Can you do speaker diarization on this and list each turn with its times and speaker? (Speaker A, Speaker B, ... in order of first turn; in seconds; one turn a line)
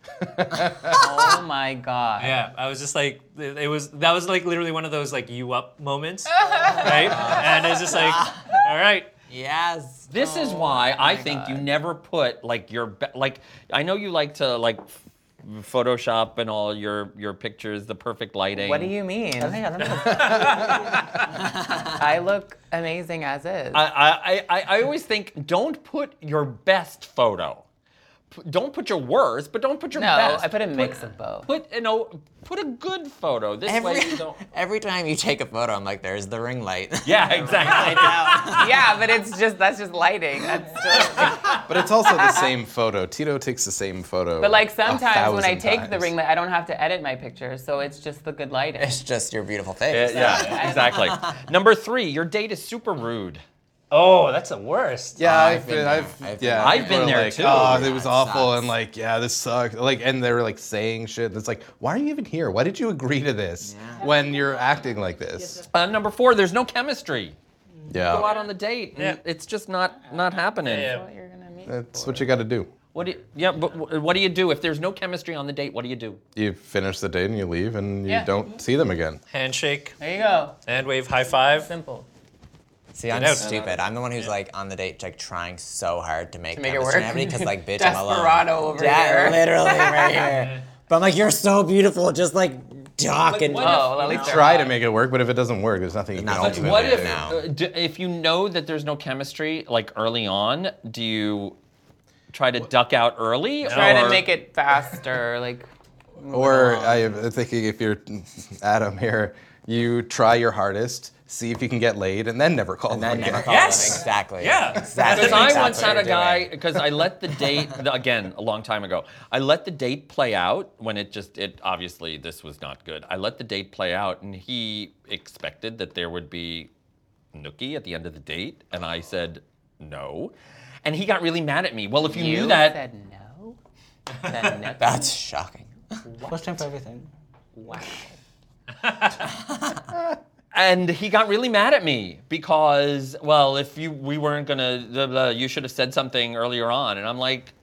Speaker A: 0.3-1.2
Speaker B: 0.9-2.4
Speaker C: 2.2-9.1
Speaker B: 6.4-7.4
Speaker D: 6.7-8.7
Speaker D: 9.3-10.2
Speaker E: 10.1-18.9
Speaker B: 10.2-11.7
Speaker B: 18.5-19.6
Speaker F: 19.4-21.0
Speaker C: 19.8-21.3
Speaker A: 20.2-20.8
Speaker D: 21.6-21.9
Speaker B: 21.9-23.8
Speaker E: 23.7-27.6
Speaker E: 28.3-34.4
Speaker B: 29.9-31.5
Speaker D: 33.6-38.9
Speaker E: 37.0-38.5
Speaker B: 37.7-42.5
Speaker A: 41.5-46.1
Speaker B: 44.4-49.0
Speaker D: 48.8-51.2
Speaker E: 49.9-53.4
Speaker B: 50.1-51.1
Speaker C: 53.9-55.2
Speaker A: 55.1-65.6
Speaker D: 55.2-58.7
Speaker E: 56.6-57.9
Speaker D: 63.6-64.1
Speaker E: 65.6-67.3
Speaker F: 67.8-68.1
Speaker A: 67.9-68.3
Speaker E: 68.1-70.9
Speaker C: 70.6-71.0
Speaker B: 70.7-72.3
Speaker A: 71.7-72.7
Speaker E: 72.9-76.2
Speaker A: 76.3-79.2
Speaker B: 78.1-78.3
Speaker C: 79.3-80.0
Speaker B: 80.0-80.5
Speaker C: 80.7-81.7
Speaker B: 81.5-82.1
Speaker D: 82.9-94.2
Speaker C: 83.1-83.5
Speaker E: 83.4-83.8
Speaker B: 86.5-90.3
Speaker E: 93.2-94.5
Speaker B: 93.6-94.8
Speaker A: 94.1-97.3
Speaker D: 96.1-97.4
Speaker E: 96.4-101.5
Speaker E: 102.3-104.2
Speaker C: 103.6-104.2
Speaker B: 103.7-105.7
Speaker B: 106.2-107.1
Speaker A: 106.3-113.9
Speaker D: 112.9-116.5
Speaker C: 113.4-116.2
Speaker E: 115.1-126.7
Speaker E: 127.3-132.8
Speaker B: 132.0-133.6
Speaker B: 134.2-135.1
Speaker D: 134.3-136.0
Speaker F: 136.2-137.1
Speaker B: 137.6-138.1
Speaker C: 138.8-139.2
Speaker D: 139.2-139.8
Speaker E: 140.5-147.5